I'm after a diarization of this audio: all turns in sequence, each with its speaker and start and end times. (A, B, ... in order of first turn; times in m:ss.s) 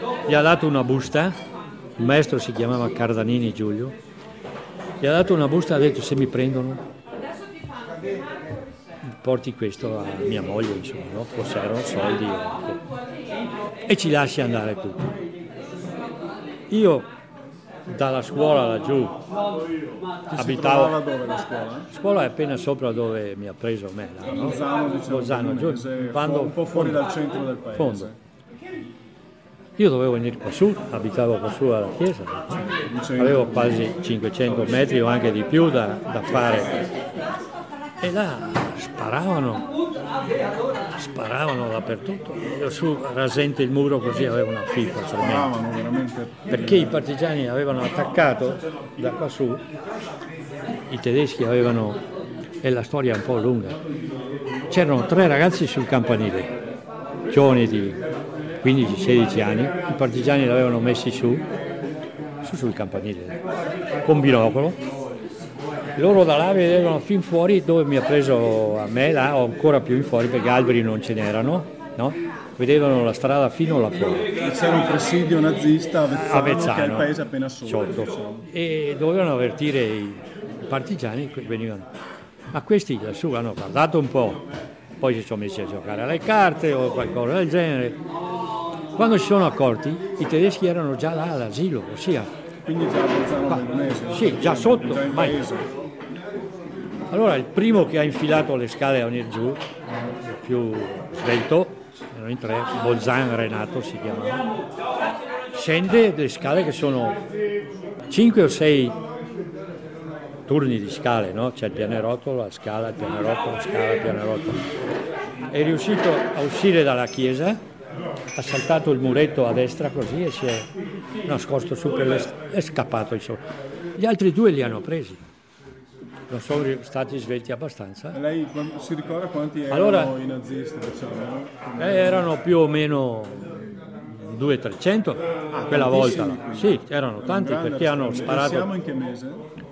0:00.3-0:01.4 A
0:02.0-0:04.0 A
0:05.0-0:06.8 A
0:09.1-0:12.8 A
0:13.9-0:15.2 A
0:16.7-0:17.1 A
0:17.9-0:19.2 A
0:20.3-0:21.9 B
0:20.4-0:21.0 A
0:21.9-0:27.0 A
0:24.3-0:28.2 B
0:27.8-0:28.1 A
0:29.8-0:36.8 A
0:32.9-0:33.9 B
0:38.0-0:39.7 A
0:41.0-0:45.5 A
0:45.2-0:47.0 B
0:46.5-0:49.6 A
0:50.9-0:52.0 A
0:52.6-0:53.8 A
0:54.7-0:56.6 A
0:57.3-0:58.0 A
0:58.6-1:01.5 A
1:02.4-1:03.4 A
1:04.0-1:04.8 A
1:06.0-1:14.3 A
1:14.4-1:18.4 B
1:16.2-1:17.1 A
1:17.6-1:21.9 A
1:22.5-1:24.4 A
1:25.0-1:28.0 A
1:29.0-1:32.3 A
1:32.7-1:35.7 B
1:33.5-1:35.4 A
1:37.1-1:44.4 A
1:45.5-1:47.2 A
1:48.1-1:49.0 A
1:50.5-1:54.7 A
1:55.5-1:57.6 A
1:58.4-2:00.7 A
2:01.3-2:03.4 A
2:04.0-2:05.2 A
2:06.3-2:08.2 A
2:08.1-2:12.3 B
2:09.7-2:10.2 A
2:11.8-2:13.5 A
2:14.1-2:18.7 A
2:15.5-2:19.4 B